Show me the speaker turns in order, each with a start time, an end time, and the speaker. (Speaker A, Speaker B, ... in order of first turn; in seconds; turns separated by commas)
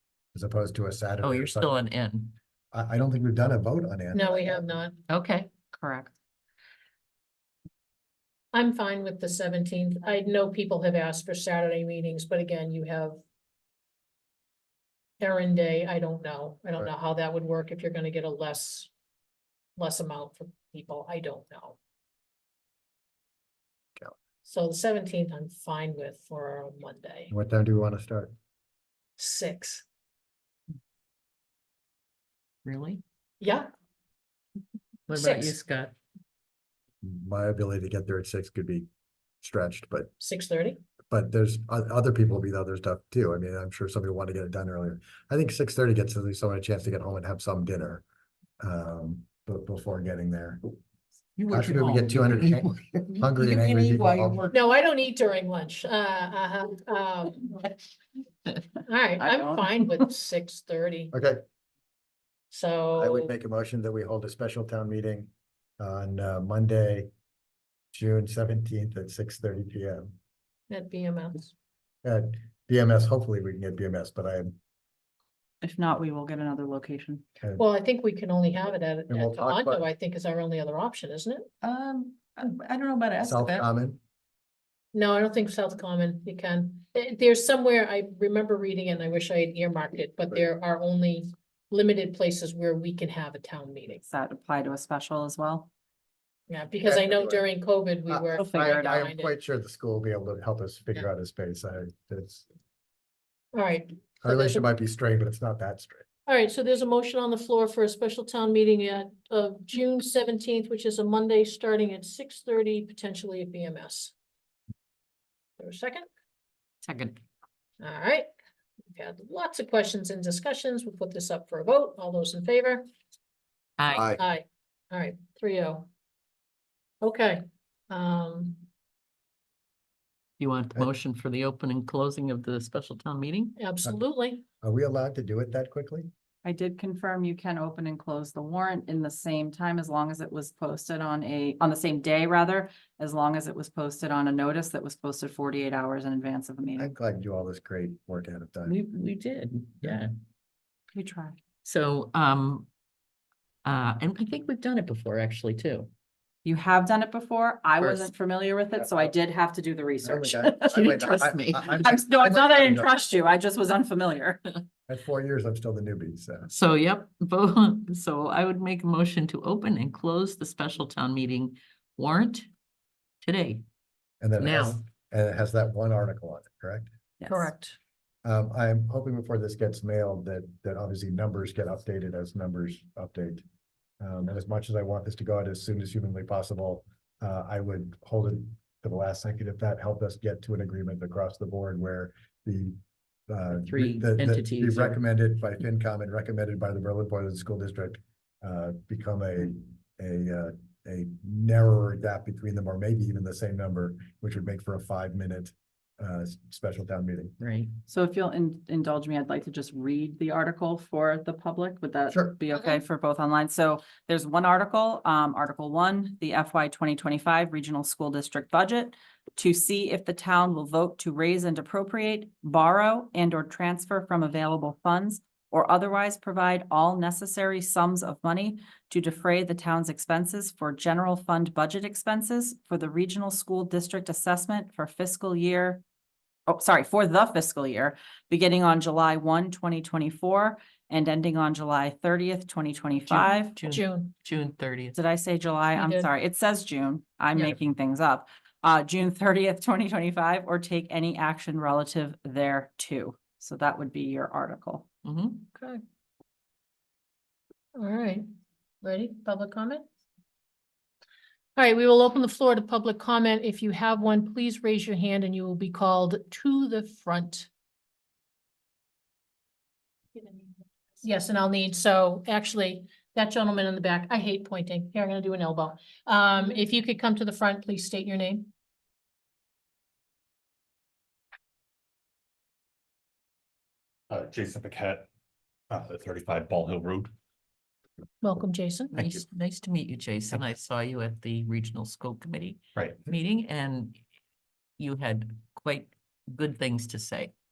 Speaker A: 0.3-1.7, Speaker B: 1.2-2.4, Speaker A: 2.7-4.7, Speaker C: 4.1-5.0, Speaker B: 5.1-6.1, Speaker C: 8.5-13.2, Speaker C: 15.2-18.9, Speaker C: 19.8-21.8, Speaker C: 24.4-27.3, Speaker A: 27.3-28.3, Speaker C: 29.2-29.8, Speaker B: 32.6-33.0, Speaker C: 33.4-33.7, Speaker B: 35.1-36.0, Speaker C: 35.1-35.5, Speaker A: 37.0-38.9, Speaker A: 39.4-40.1, Speaker C: 40.2-40.8, Speaker A: 41.1-48.0, Speaker A: 48.6-50.6, Speaker B: 51.4-54.5, Speaker A: 51.5-54.5, Speaker C: 54.5-57.7, Speaker C: 58.8-61.1, Speaker B: 59.2-59.6, Speaker A: 61.1-61.4, Speaker C: 62.5-63.3, Speaker A: 63.0-67.1, Speaker A: 67.9-70.1, Speaker C: 70.7-71.5, Speaker A: 72.0-74.6, Speaker D: 75.6-77.2, Speaker C: 77.6-81.5, Speaker A: 79.1-79.8, Speaker B: 81.6-83.7, Speaker A: 83.2-84.0, Speaker C: 84.9-94.0, Speaker D: 94.0-95.7, Speaker C: 96.5-99.3, Speaker A: 96.8-97.4, Speaker A: 98.1-102.5, Speaker D: 98.3-99.1, Speaker C: 103.5-104.7, Speaker A: 104.2-106.0, Speaker C: 106.3-114.1, Speaker C: 115.6-116.0, Speaker B: 116.8-117.2, Speaker C: 117.8-118.3, Speaker C: 118.9-122.8, Speaker B: 123.8-124.1, Speaker A: 123.9-124.2, Speaker C: 124.2-125.9, Speaker C: 127.0-128.7, Speaker B: 130.4-133.5, Speaker C: 133.6-134.4, Speaker A: 134.6-136.1, Speaker D: 136.4-146.9, Speaker A: 146.8-148.8, Speaker B: 148.7-150.1, Speaker D: 150.9-151.4, Speaker B: 151.6-152.7, Speaker B: 153.6-155.9, Speaker D: 156.4-160.9, Speaker B: 157.8-158.1, Speaker A: 158.8-159.1, Speaker A: 160.0-162.9, Speaker B: 160.7-161.9, Speaker D: 161.8-164.6, Speaker A: 164.9-166.5, Speaker B: 166.5-172.5, Speaker B: 173.2-173.6, Speaker A: 174.2-176.9, Speaker B: 174.4-174.8, Speaker D: 177.2-177.5, Speaker C: 177.3-177.8, Speaker A: 178.2-183.4, Speaker A: 184.0-207.4, Speaker B: 193.6-195.0, Speaker B: 207.4-207.8, Speaker D: 207.9-235.8, Speaker D: 236.5-243.6, Speaker B: 243.1-245.0, Speaker C: 243.7-244.1, Speaker D: 244.9-254.9, Speaker C: 245.7-246.1, Speaker B: 255.0-255.4, Speaker C: 255.5-255.8, Speaker C: 257.7-258.2, Speaker C: 258.8-259.8, Speaker C: 261.6-267.5, Speaker C: 271.0-278.5, Speaker E: 284.1-285.1, Speaker E: 285.7-287.1, Speaker C: 288.2-288.9, Speaker B: 288.9-294.0, Speaker E: 289.0-289.2, Speaker E: 292.8-293.1, Speaker B: 294.8-297.3